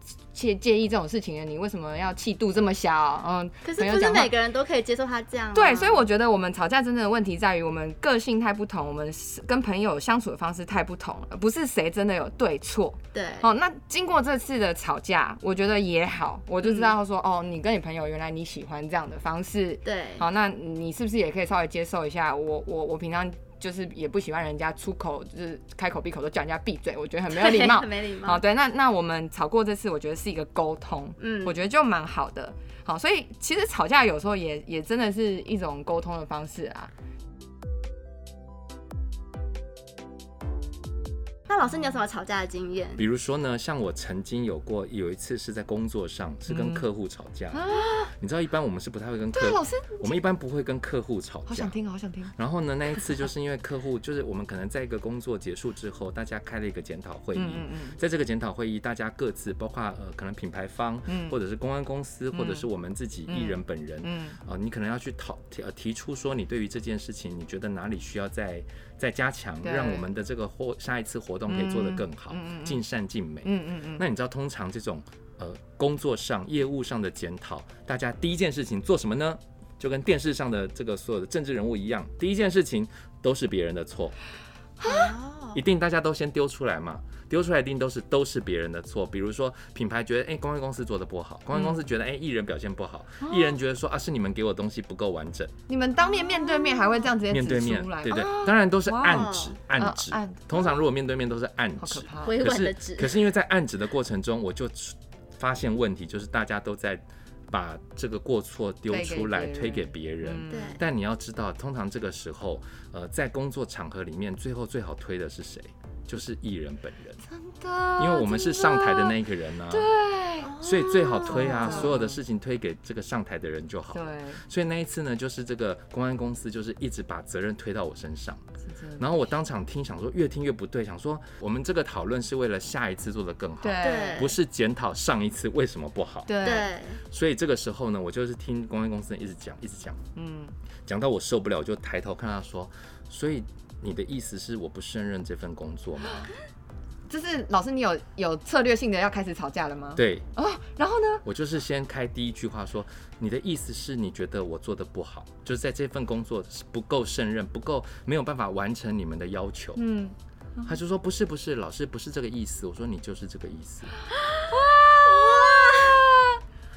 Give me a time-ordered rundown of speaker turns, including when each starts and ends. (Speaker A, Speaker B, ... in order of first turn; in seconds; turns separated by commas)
Speaker A: 0.3-4.3, Speaker B: 3.6-6.0, Speaker A: 5.5-36.9, Speaker B: 13.1-13.5, Speaker B: 16.6-16.9, Speaker B: 19.9-20.2, Speaker B: 27.3-28.4, Speaker B: 31.2-31.6, Speaker B: 41.5-43.0, Speaker C: 43.0-51.8, Speaker A: 46.5-46.9, Speaker A: 47.5-48.1, Speaker A: 49.3-50.2, Speaker A: 51.5-52.3, Speaker C: 52.4-84.2, Speaker A: 57.4-58.0, Speaker A: 61.1-61.4, Speaker A: 62.3-62.6, Speaker A: 63.3-64.4, Speaker A: 69.6-70.0, Speaker A: 71.5-72.8, Speaker A: 73.4-74.1, Speaker A: 84.8-85.1, Speaker B: 84.8-85.6, Speaker C: 85.5-95.5, Speaker A: 91.5-91.8, Speaker A: 93.2-93.5, Speaker A: 95.7-100.7, Speaker B: 96.2-97.1, Speaker C: 97.3-117.2, Speaker B: 99.0-99.6, Speaker A: 101.8-102.4, Speaker B: 102.2-103.1, Speaker A: 108.9-110.8, Speaker B: 110.5-110.8, Speaker A: 117.3-119.2, Speaker C: 118.0-119.9, Speaker A: 119.7-122.2, Speaker B: 120.4-121.8, Speaker C: 120.6-128.4, Speaker A: 123.9-124.4, Speaker A: 128.7-129.1, Speaker C: 129.0-136.3, Speaker A: 133.6-134.2, Speaker B: 133.8-134.4, Speaker A: 136.3-136.7, Speaker B: 136.4-137.0, Speaker C: 137.1-140.0, Speaker A: 140.2-140.5, Speaker C: 140.9-146.3, Speaker A: 147.1-151.2, Speaker C: 150.0-150.3, Speaker C: 151.2-159.8, Speaker A: 159.8-160.7, Speaker C: 160.7-163.9, Speaker A: 164.5-166.4, Speaker B: 165.1-166.1